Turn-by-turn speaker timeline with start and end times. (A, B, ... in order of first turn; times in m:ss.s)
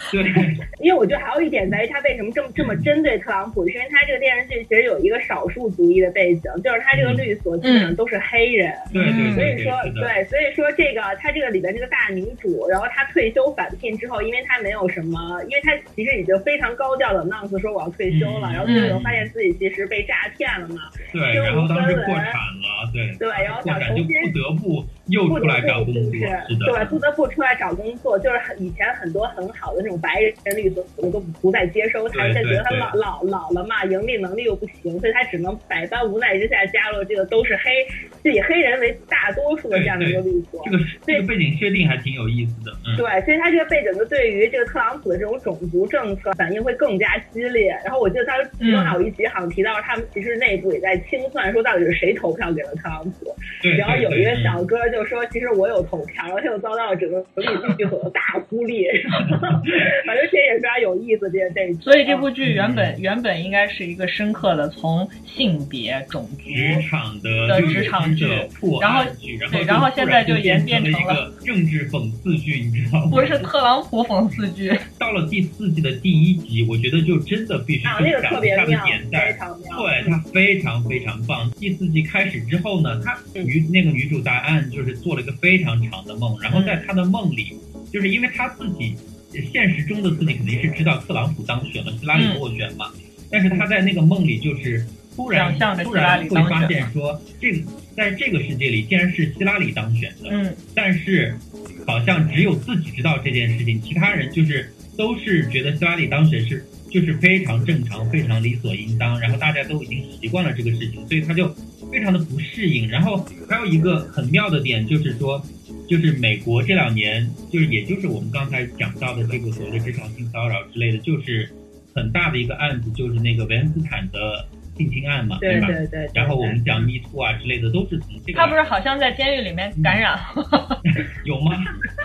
0:00.1-0:00.6 A
0:00.3-0:22.4 B
0:02.6-0:02.9 A
0:06.9-0:07.3 A
0:07.6-0:07.9 C
0:08.9-0:10.1 A
0:08.9-0:09.5 C
0:18.1-0:19.3 A
0:18.6-0:19.0 C
0:21.1-0:27.0 A
0:23.2-0:24.3 B
0:25.3-0:41.3 B
0:32.1-0:33.0 A
0:39.7-0:43.0 A
0:43.0-1:02.3 B
0:48.6-0:49.0 C
0:53.6-0:54.6 A
1:01.8-1:06.8 C
1:02.4-1:03.0 A
1:06.5-1:13.5 A
1:07.5-1:11.2 C
1:07.6-1:07.9 B
1:13.1-1:14.9 C
1:15.0-2:08.6 A
1:17.8-1:20.2 B
1:26.5-1:26.8 C
1:32.1-1:32.4 C
1:35.3-1:36.9 C
1:40.3-1:40.6 C
2:05.4-2:06.6 B
2:08.3-2:10.8 C
2:10.8-2:11.9 A